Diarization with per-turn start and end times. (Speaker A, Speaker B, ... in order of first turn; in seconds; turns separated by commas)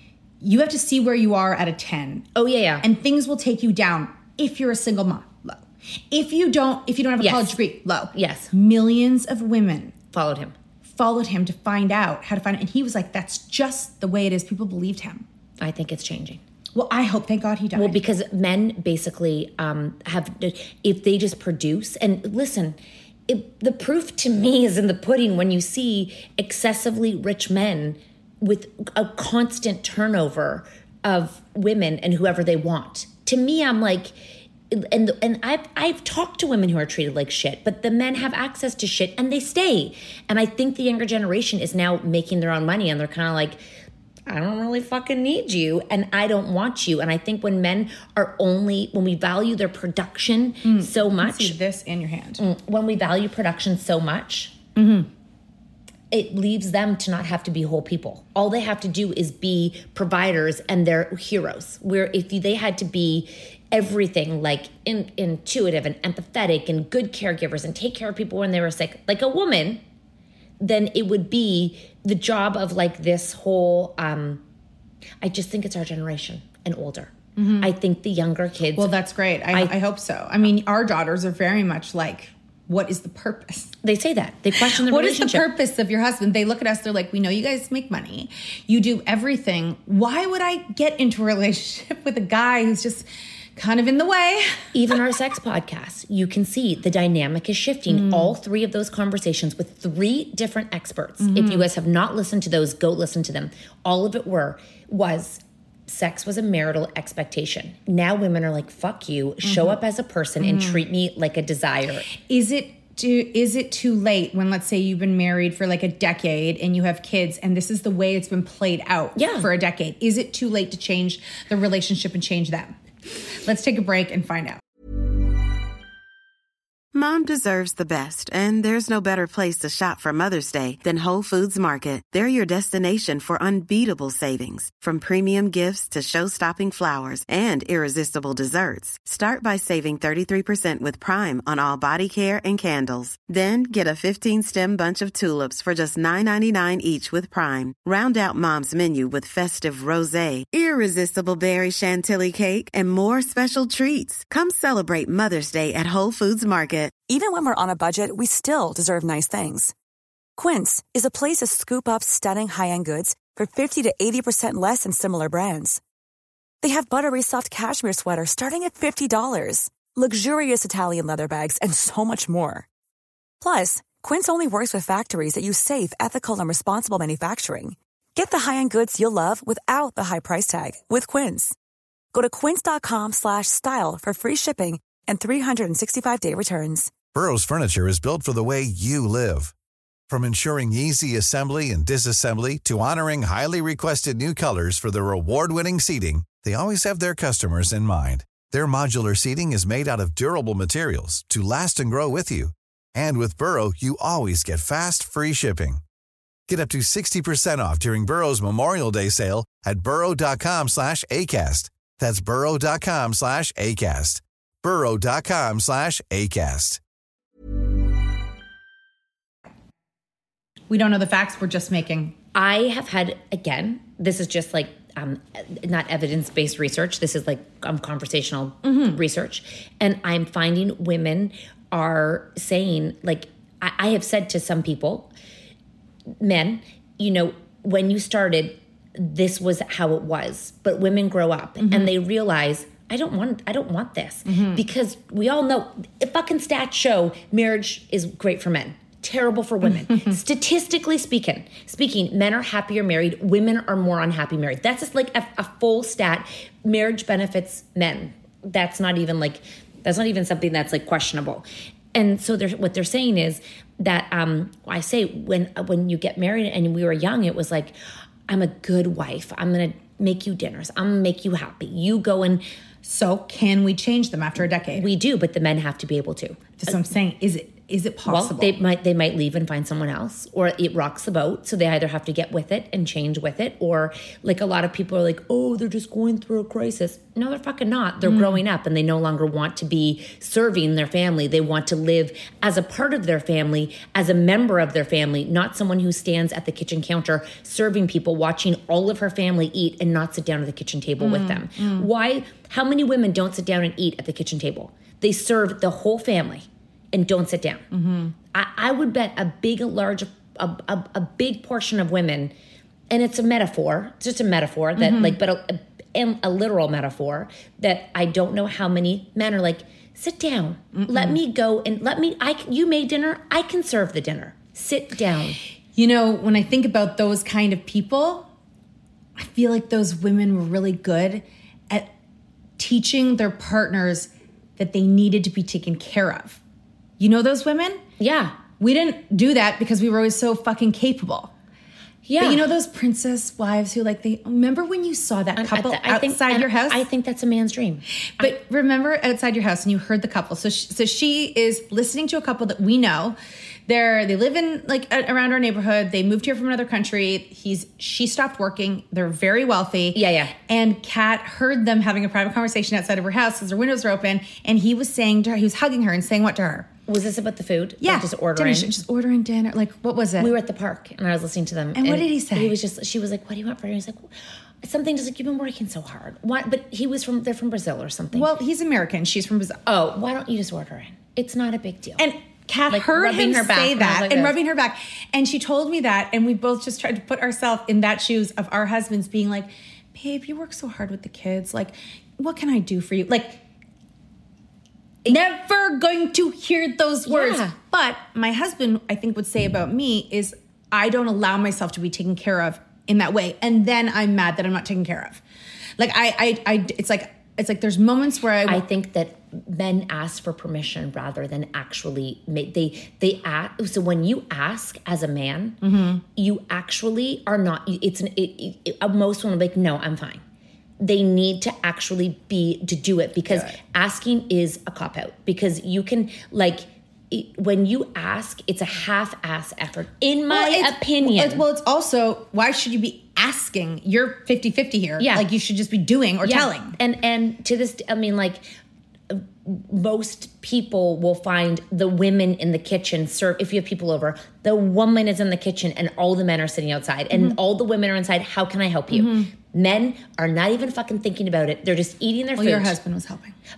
Speaker A: 0.4-2.3, Speaker B: 2.3-2.9, Speaker A: 2.8-9.9, Speaker B: 7.2-7.5, Speaker B: 8.1-8.5, Speaker B: 10.1-10.5, Speaker A: 10.8-15.2, Speaker B: 15.6-16.4, Speaker A: 16.7-18.0, Speaker B: 17.7-34.1, Speaker B: 34.7-43.6, Speaker B: 44.3-51.6, Speaker A: 50.6-52.4, Speaker B: 52.4-54.5, Speaker A: 54.8-55.1, Speaker B: 56.1-69.8, Speaker B: 70.6-74.4, Speaker B: 75.2-78.9, Speaker A: 77.4-77.7, Speaker A: 78.7-83.7, Speaker B: 83.8-85.5, Speaker A: 84.6-93.0, Speaker A: 93.5-94.6, Speaker B: 94.7-112.1, Speaker A: 97.9-98.3, Speaker A: 101.2-101.7, Speaker A: 109.4-109.8, Speaker A: 110.4-110.8, Speaker A: 112.2-122.8, Speaker B: 119.2-119.5, Speaker A: 123.4-124.6, Speaker C: 126.9-157.0, Speaker D: 157.1-159.7, Speaker D: 160.4-165.8, Speaker D: 166.6-172.7, Speaker D: 173.4-181.6, Speaker D: 182.1-186.9, Speaker E: 187.1-189.5, Speaker E: 190.1-205.8, Speaker E: 206.5-216.8, Speaker A: 220.7-222.1, Speaker B: 222.3-235.1, Speaker A: 228.6-229.0, Speaker B: 236.2-267.7, Speaker A: 241.6-241.9, Speaker A: 244.3-244.6, Speaker B: 268.3-272.4, Speaker A: 272.8-274.9, Speaker B: 274.7-276.8, Speaker A: 276.6-278.5, Speaker B: 278.1-307.6, Speaker A: 288.0-288.4, Speaker A: 301.0-301.9, Speaker A: 307.7-308.1, Speaker B: 308.3-312.3, Speaker B: 312.9-325.4, Speaker A: 314.8-315.2, Speaker A: 320.7-321.2, Speaker A: 325.7-328.3, Speaker A: 329.2-331.9, Speaker A: 332.6-336.4, Speaker A: 337.0-337.8, Speaker B: 338.0-338.4, Speaker A: 338.6-341.3, Speaker B: 342.0-342.4, Speaker A: 342.2-346.8, Speaker B: 345.4-348.3, Speaker A: 348.2-366.7, Speaker B: 359.9-360.3, Speaker B: 366.9-368.7, Speaker A: 367.8-370.3, Speaker B: 370.2-374.1, Speaker A: 371.7-372.6, Speaker B: 374.6-378.3, Speaker A: 378.1-379.6, Speaker B: 379.6-382.1, Speaker A: 382.0-393.4, Speaker B: 382.7-384.4, Speaker A: 395.1-405.2, Speaker B: 397.1-397.5, Speaker A: 405.8-408.6, Speaker B: 408.5-415.6, Speaker A: 415.6-416.0, Speaker B: 416.1-420.2, Speaker B: 420.8-431.4, Speaker A: 423.3-423.6, Speaker A: 430.3-436.8, Speaker B: 435.0-435.2, Speaker B: 436.2-438.5, Speaker B: 439.1-452.8, Speaker A: 447.1-447.4, Speaker A: 448.9-449.3, Speaker A: 452.4-453.3